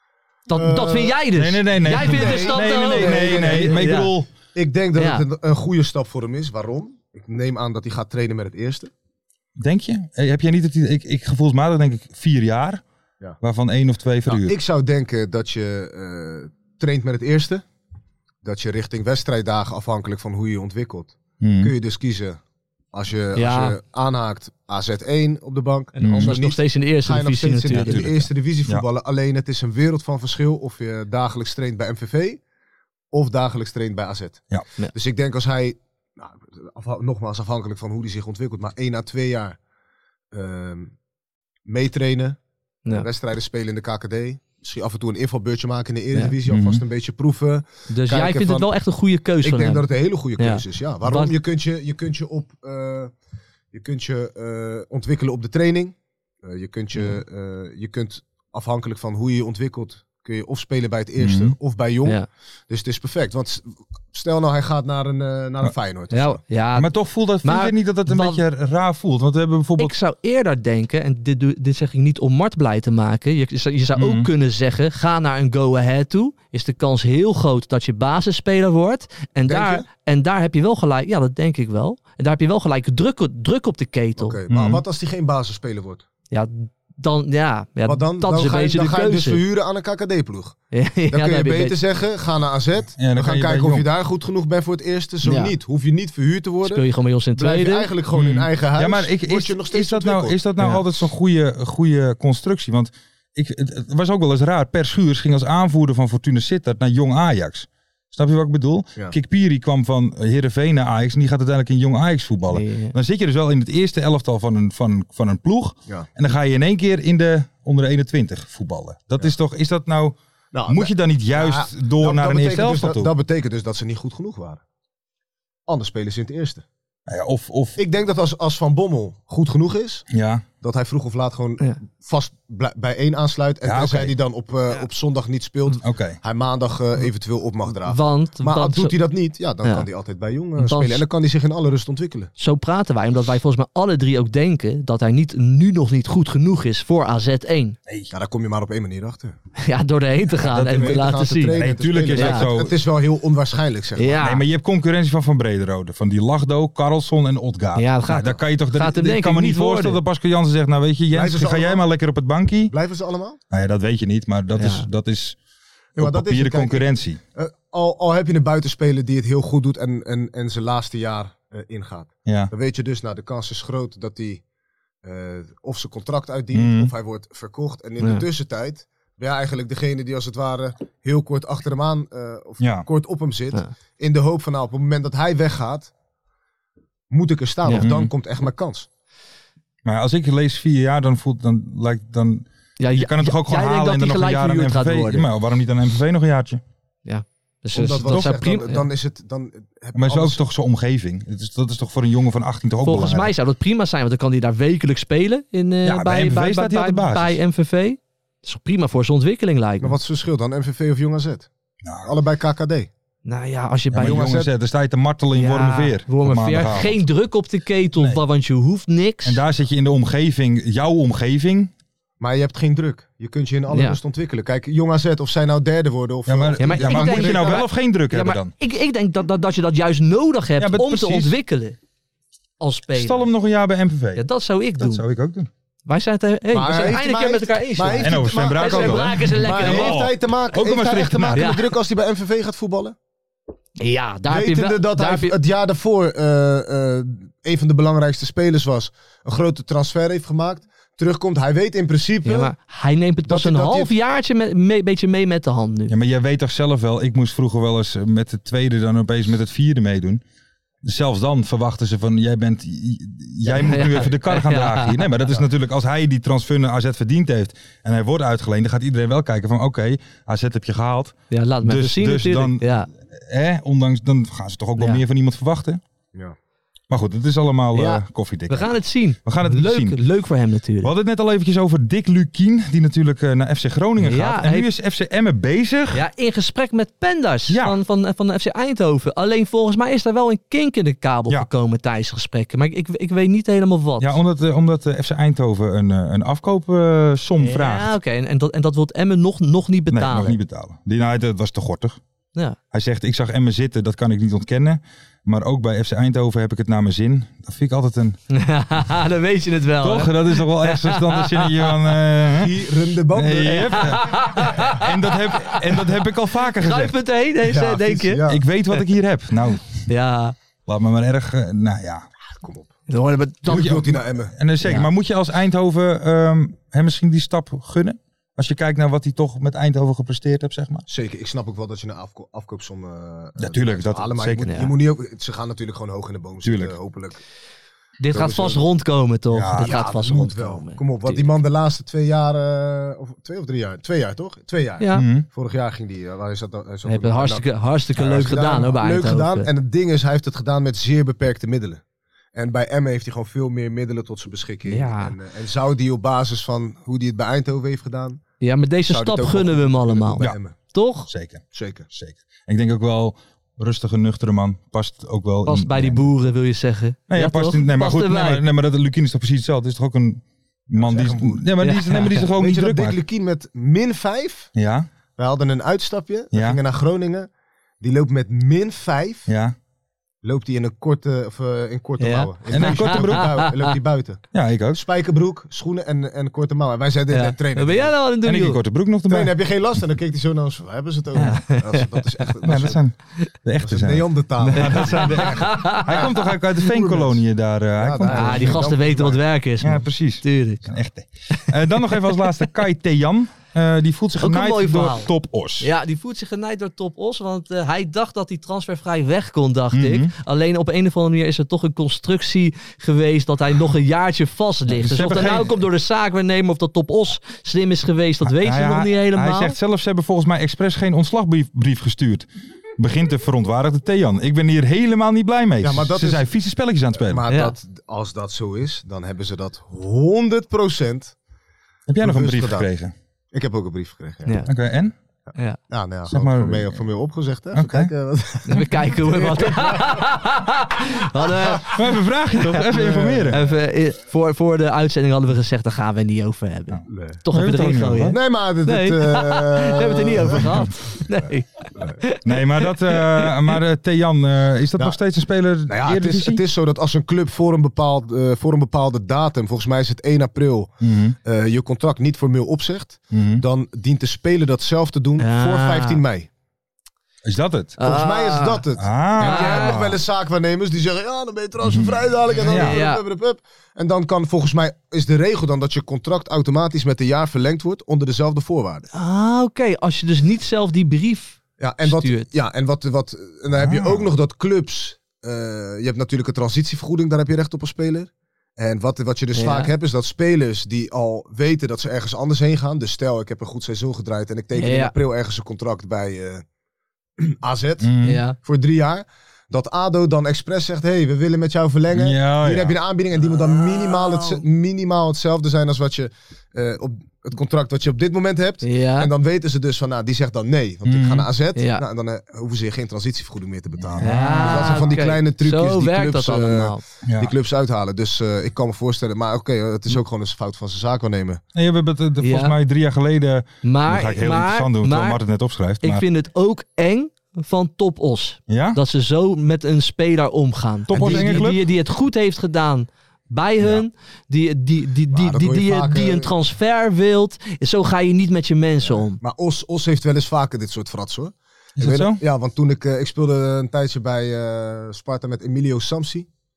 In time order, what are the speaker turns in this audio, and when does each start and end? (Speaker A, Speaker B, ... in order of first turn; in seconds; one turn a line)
Speaker A: 0.5-4.1
Speaker B: 0.5-1.2
Speaker C: 1.4-4.3
Speaker B: 1.8-4.0
Speaker B: 4.5-8.9
Speaker A: 5.0-5.2
Speaker C: 9.6-12.8
Speaker C: 13.4-14.6
Speaker B: 14.3-17.6
Speaker B: 18.4-22.4
Speaker C: 21.4-21.7
Speaker B: 22.9-32.4
Speaker A: 23.4-23.8
Speaker A: 25.9-28.1
Speaker C: 26.0-26.4
Speaker C: 27.7-28.9
Speaker B: 33.1-39.6
Speaker B: 40.3-41.0
Speaker B: 41.6-48.7
Speaker C: 46.5-46.8
Speaker A: 47.9-49.9
Speaker B: 49.4-53.1
Speaker A: 50.4-51.3
Speaker B: 53.7-66.4
Speaker A: 57.0-57.2
Speaker C: 61.2-61.5
Speaker A: 66.1-66.9
Speaker C: 66.8-70.0
Speaker A: 67.4-68.4
Speaker A: 69.8-84.4
Speaker C: 74.0-74.3
Speaker B: 79.5-79.9
Speaker B: 84.2-86.0
Speaker C: 84.5-84.8
Speaker A: 86.3-89.4
Speaker B: 87.8-90.6
Speaker A: 90.7-91.8
Speaker B: 91.1-96.8
Speaker C: 93.0-93.9
Speaker A: 95.2-95.6
Speaker A: 96.6-97.9
Speaker B: 97.4-100.4
Speaker C: 98.1-123.1
Speaker A: 112.5-112.9
Speaker B: 120.5-124.6
Speaker B: 125.7-126.6
Speaker C: 127.1-127.8
Speaker B: 127.8-130.1
Speaker C: 130.1-130.4
Speaker B: 130.6-142.3
Speaker C: 133.6-134.2
Speaker C: 135.8-136.2
Speaker A: 137.8-138.9
Speaker A: 140.6-141.1
Speaker A: 142.4-147.8
Speaker C: 147.9-148.1
Speaker B: 148.1-149.3
Speaker A: 149.6-151.6
Speaker C: 150.4-152.8
Speaker B: 150.6-154.2
Speaker A: 152.1-152.5
Speaker A: 154.0-154.4
Speaker C: 154.2-162.7
Speaker A: 157.8-160.0
Speaker B: 161.1-161.8
Speaker B: 162.7-163.4
Speaker C: 163.5-165.4
Speaker A: 164.6-164.9
Speaker B: 165.9-174.4
Speaker C: 166.0-167.2
Speaker C: 172.3-172.5
Speaker B: 175.0-185.9
Speaker C: 176.5-176.9
Speaker C: 182.6-182.9
Speaker B: 187.1-188.9
Speaker C: 187.8-188.1
Speaker C: 189.8-196.6
Speaker A: 192.8-195.3
Speaker A: 197.1-198.9
Speaker B: 197.7-200.4
Speaker C: 199.9-203.3
Speaker A: 202.8-209.9
Speaker C: 205.8-207.4
Speaker B: 209.8-211.5
Speaker C: 211.8-212.1
Speaker B: 212.0-212.9
Speaker A: 213.2-214.3
Speaker C: 213.9-217.0
Speaker B: 213.9-214.5
Speaker A: 215.3-219.4
Speaker C: 219.2-221.7
Speaker B: 222.2-227.6
Speaker A: 223.7-224.0
Speaker C: 226.3-228.5
Speaker A: 226.6-231.8
Speaker C: 230.6-231.4
Speaker A: 232.6-233.3
Speaker C: 232.9-234.3
Speaker A: 234.2-235.0
Speaker C: 234.8-235.5
Speaker A: 235.9-240.0
Speaker B: 236.5-242.9
Speaker C: 238.0-241.5
Speaker A: 241.3-241.6
Speaker A: 243.8-245.3
Speaker B: 244.3-252.5
Speaker A: 252.2-255.9
Speaker B: 253.3-253.9
Speaker C: 255.9-260.2
Speaker C: 260.8-275.8
Speaker A: 263.5-265.0
Speaker A: 271.3-272.9
Speaker C: 276.9-280.0
Speaker A: 277.8-280.9
Speaker C: 280.8-286.0
Speaker A: 284.0-284.7
Speaker A: 285.9-294.2
Speaker C: 287.5-287.8
Speaker C: 294.0-297.9
Speaker A: 297.4-300.4
Speaker C: 299.9-302.0
Speaker C: 302.7-308.2
Speaker A: 308.3-311.8
Speaker C: 309.8-312.6
Speaker B: 312.3-314.0
Speaker C: 313.1-316.9
Speaker A: 313.4-315.8
Speaker A: 316.6-318.8
Speaker B: 317.4-318.4
Speaker C: 318.3-319.9
Speaker A: 319.9-320.4
Speaker C: 320.7-322.1
Speaker B: 322.4-322.7
Speaker A: 322.9-323.9
Speaker B: 323.5-324.3
Speaker C: 323.5-330.9
Speaker A: 324.6-324.9
Speaker B: 330.9-337.2
Speaker C: 333.4-334.7
Speaker A: 334.4-334.7
Speaker C: 336.4-336.8
Speaker A: 338.0-341.3
Speaker B: 338.1-338.7
Speaker C: 339.3-339.8
Speaker B: 339.6-351.8
Speaker A: 344.8-345.1
Speaker C: 344.9-345.3
Speaker A: 346.9-349.5
Speaker B: 352.3-358.2
Speaker A: 354.7-355.1
Speaker A: 358.4-361.1
Speaker B: 358.9-360.6
Speaker C: 361.1-366.1
Speaker B: 361.5-361.9
Speaker A: 365.4-368.4
Speaker C: 367.1-373.0
Speaker B: 370.8-371.5
Speaker A: 371.6-372.3
Speaker B: 372.2-374.5
Speaker C: 374.6-374.9
Speaker B: 375.2-377.3
Speaker C: 376.3-376.6
Speaker B: 377.8-379.3
Speaker C: 379.3-379.6
Speaker B: 380.2-387.9
Speaker A: 382.0-383.5
Speaker C: 382.5-383.4
Speaker C: 384.3-384.8
Speaker A: 387.1-388.6
Speaker C: 388.2-389.3
Speaker B: 389.1-392.8
Speaker A: 391.2-391.9
Speaker C: 392.4-398.7
Speaker B: 393.6-396.0
Speaker A: 394.4-396.3
Speaker B: 396.8-397.1
Speaker B: 397.8-399.2
Speaker A: 398.1-400.7
Speaker C: 399.6-405.7
Speaker A: 401.3-402.2
Speaker A: 404.2-419.6
Speaker C: 409.7-410.1
Speaker C: 414.7-415.6
Speaker C: 418.2-422.3
Speaker C: 422.8-427.3
Speaker B: 425.6-426.3
Speaker B: 427.1-431.1
Speaker A: 427.3-427.6
Speaker C: 431.9-432.9
Speaker B: 432.0-432.7
Speaker B: 433.3-434.5
Speaker C: 434.4-434.9
Speaker B: 435.7-440.2
Speaker C: 436.1-436.8
Speaker C: 437.5-437.9
Speaker A: 438.4-441.8
Speaker C: 441.6-443.4
Speaker A: 442.3-453.6
Speaker B: 442.7-443.4
Speaker C: 446.7-448.2
Speaker B: 446.9-447.2
Speaker B: 448.1-450.7
Speaker C: 452.2-456.4
Speaker B: 455.7-466.3
Speaker C: 460.8-461.2
Speaker C: 463.1-463.4
Speaker A: 465.2-466.0
Speaker C: 467.2-467.8
Speaker A: 467.8-468.6
Speaker B: 467.8-478.9
Speaker C: 468.8-470.0
Speaker A: 469.2-469.8
Speaker C: 471.6-472.8
Speaker A: 472.4-473.0
Speaker A: 478.9-482.3
Speaker B: 481.6-496.4
Speaker C: 483.5-484.1
Speaker A: 489.3-489.7
Speaker A: 494.6-494.9
Speaker B: 497.2-521.4
Speaker C: 497.8-498.2
Speaker A: 498.0-498.4
Speaker C: 501.9-502.8
Speaker A: 503.2-504.4
Speaker A: 508.6-509.1
Speaker C: 510.9-511.3
Speaker A: 511.6-511.8
Speaker C: 513.8-515.0
Speaker A: 514.0-516.8
Speaker C: 517.1-517.3
Speaker C: 521.5-526.0
Speaker A: 522.2-522.5
Speaker A: 523.6-525.2
Speaker A: 525.8-539.2
Speaker C: 528.5-528.8
Speaker C: 530.9-531.6
Speaker B: 530.9-531.5
Speaker B: 535.1-536.3
Speaker B: 538.9-546.3
Speaker C: 541.8-542.2